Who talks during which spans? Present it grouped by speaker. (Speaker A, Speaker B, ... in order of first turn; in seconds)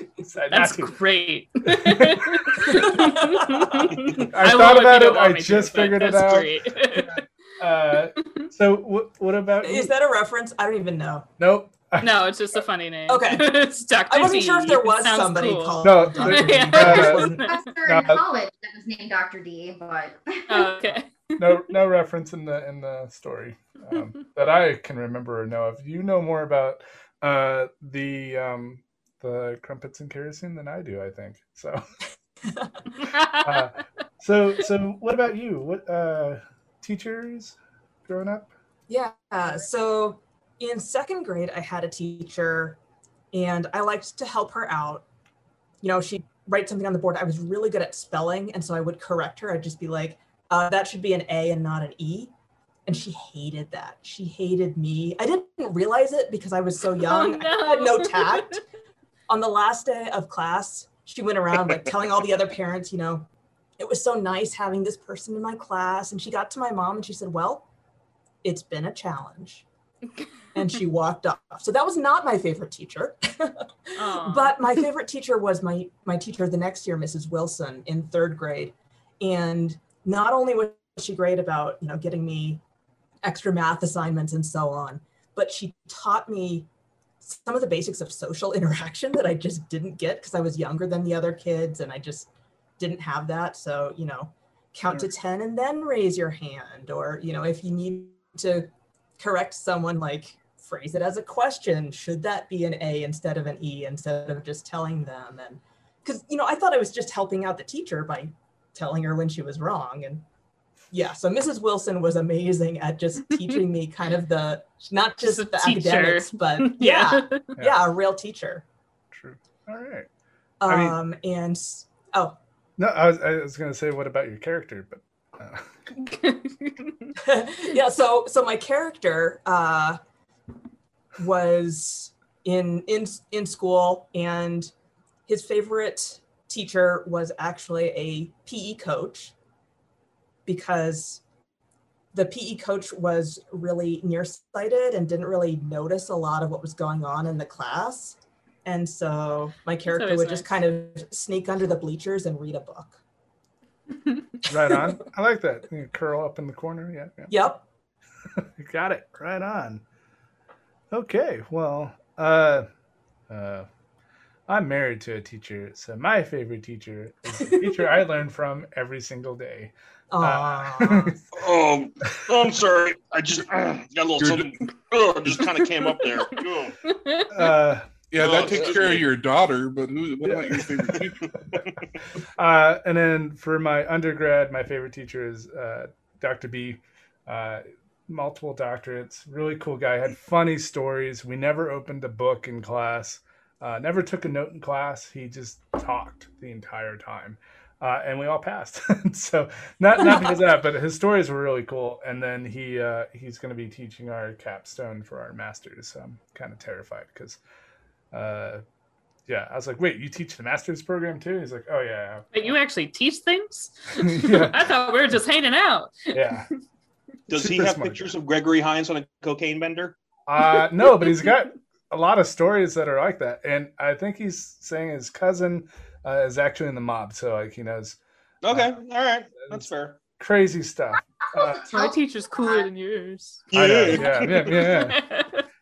Speaker A: 0.2-0.9, 1.7-2.9, 4.3-6.5, 7.6-9.9, 11.4-12.2, 15.8-17.3, 17.9-18.2, 21.4-31.8, 33.4-38.5, 117.6-117.8, 119.1-120.1, 120.6-121.0, 122.8-125.9, 154.5-157.3, 158.4-159.8, 160.9-162.7, 163.3-163.7, 164.5-171.2, 177.3-178.7, 180.2-180.7, 182.4-207.4, 208.1-208.6, 209.3-212.5, 214.0-214.7, 216.1-216.5, 217.3-218.2, 220.3-228.0, 228.5-228.8, 229.4-231.7, 233.5-235.0
Speaker B: 0.5-7.2, 8.2-8.5, 12.0-17.7, 20.5-21.6, 33.0-33.7, 57.0-58.6, 74.0-74.6, 115.2-117.5, 126.0-127.1, 149.9-150.5, 175.9-176.2, 176.8-177.5, 212.3-216.1, 231.7-235.4
Speaker C: 2.9-3.9, 9.6-11.3, 13.1-17.4, 32.5-32.7, 38.9-42.8, 43.3-45.0, 45.8-52.3, 52.9-58.6, 59.3-67.7, 68.4-69.7, 70.5-82.6, 83.2-86.7, 87.2-110.2, 110.9-118.6, 120.6-122.4, 127.2-130.0, 131.2-134.7, 135.3-139.3, 140.4-141.2, 142.1-153.0, 157.3-157.6, 167.4-167.8, 170.1-171.2
Speaker D: 17.4-20.7, 231.4-232.7
Speaker E: 171.3-176.7, 178.2-179.1, 217.3-220.0, 228.4-230.0, 233.5-234.7
Speaker F: 174.2-174.7, 178.1-181.3